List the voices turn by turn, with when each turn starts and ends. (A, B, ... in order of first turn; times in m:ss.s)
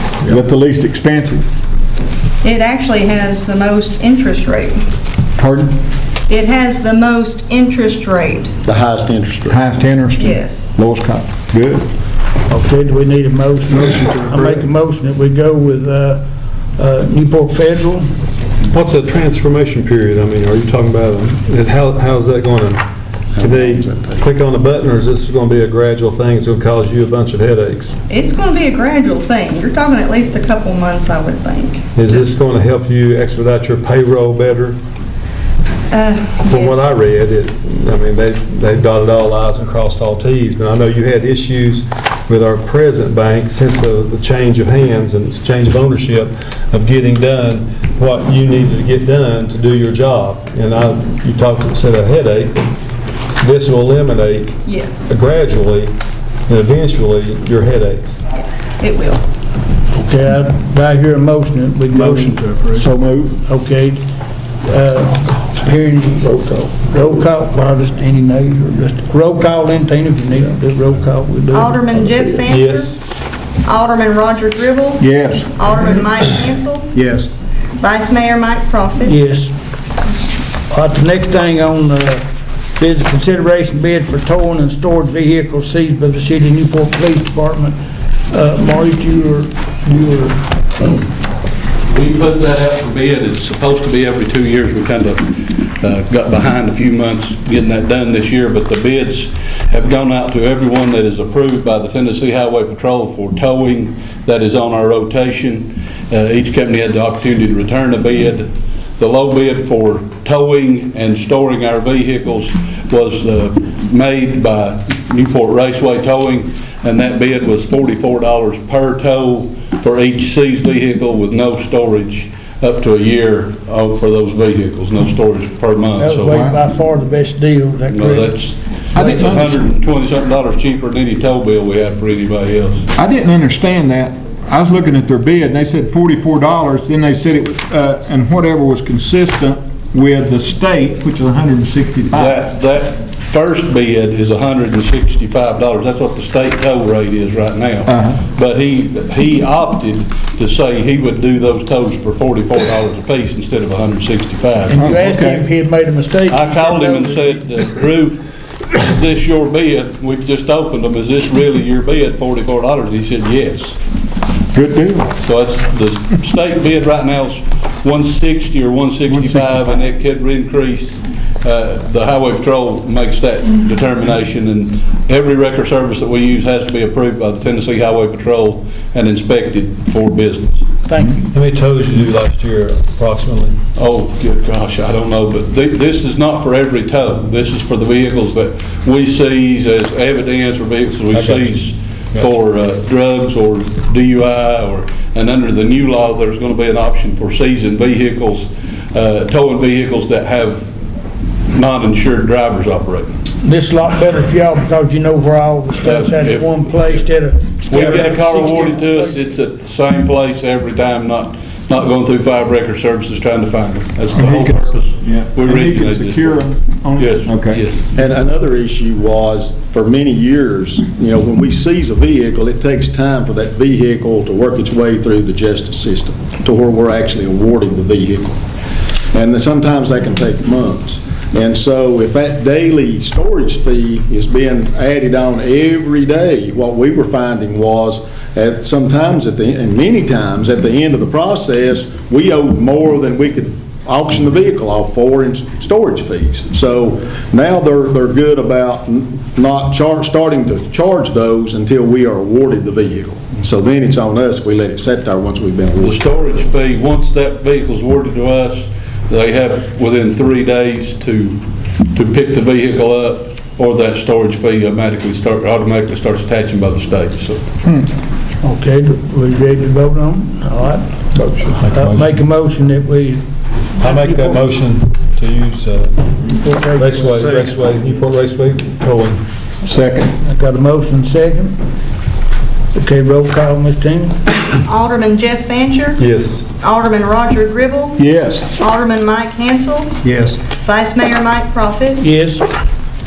0:00.2-0:01.4 A
0:02.4-0:04.8 B
0:05.4-0:05.7 A
0:06.3-0:08.5 B
0:08.6-0:09.6 C
0:09.5-0:11.8 A
0:10.2-0:10.7 B
0:12.5-0:16.2 D
0:14.0-0:14.6 A
0:16.8-0:18.1 D
0:18.7-0:22.8 E
0:23.4-0:24.2 C
0:23.4-0:28.0 E
0:28.1-0:31.8 B
0:32.0-0:34.8 E
0:35.9-0:36.9 B
0:36.4-0:52.6 E
0:53.4-0:54.5 E
0:54.6-0:55.0 B
0:55.1-0:55.9 E
0:56.5-0:58.2 E
0:58.8-0:59.2 B
0:59.9-1:04.0 D
1:02.0-1:03.3 A
1:04.6-1:11.8 D
1:11.5-1:13.0 B
1:12.5-1:13.0 E
1:13.6-1:17.0 B
1:15.0-1:15.7 A
1:17.0-1:17.3 A
1:17.8-1:19.2 B
1:19.0-1:19.5 D
1:20.7-1:22.2 D
1:22.8-1:27.8 D
1:28.3-1:31.0 D
1:31.9-2:06.5 F
2:06.0-2:08.3 D
2:07.9-2:12.9 F
2:08.9-2:09.6 A
2:12.9-2:22.4 A
2:22.1-2:34.9 F
2:27.9-2:28.2 A
2:34.7-2:37.4 D
2:34.8-2:35.5 A
2:36.3-2:38.2 F
2:38.7-2:43.8 F
2:44.5-2:45.1 A
2:45.2-3:00.6 F
2:49.2-2:49.6 A
3:00.8-3:01.3 D
3:01.3-3:03.6 E
3:03.8-3:20.7 F
3:11.1-3:11.6 E
3:21.5-3:23.1 F
3:23.4-3:29.2 D
3:25.8-3:27.0 F
3:27.7-3:37.8 F
3:34.1-3:37.6 A
3:37.9-3:48.4 C
3:49.1-4:16.3 C
4:15.8-4:21.4 F
4:21.9-4:27.5 F
4:28.4-4:34.4 D
4:31.2-4:31.6 A
4:31.6-4:32.2 E
4:33.8-4:36.0 E
4:36.3-4:37.5 D
4:36.7-4:39.2 E
4:39.6-4:40.1 A
4:40.2-4:41.6 D
4:42.7-4:44.3 D
4:44.5-4:46.0 B
4:46.0-4:46.4 E
4:46.6-4:52.0 B
4:48.0-4:48.5 A
4:50.0-4:50.4 A
4:52.0-4:52.4 D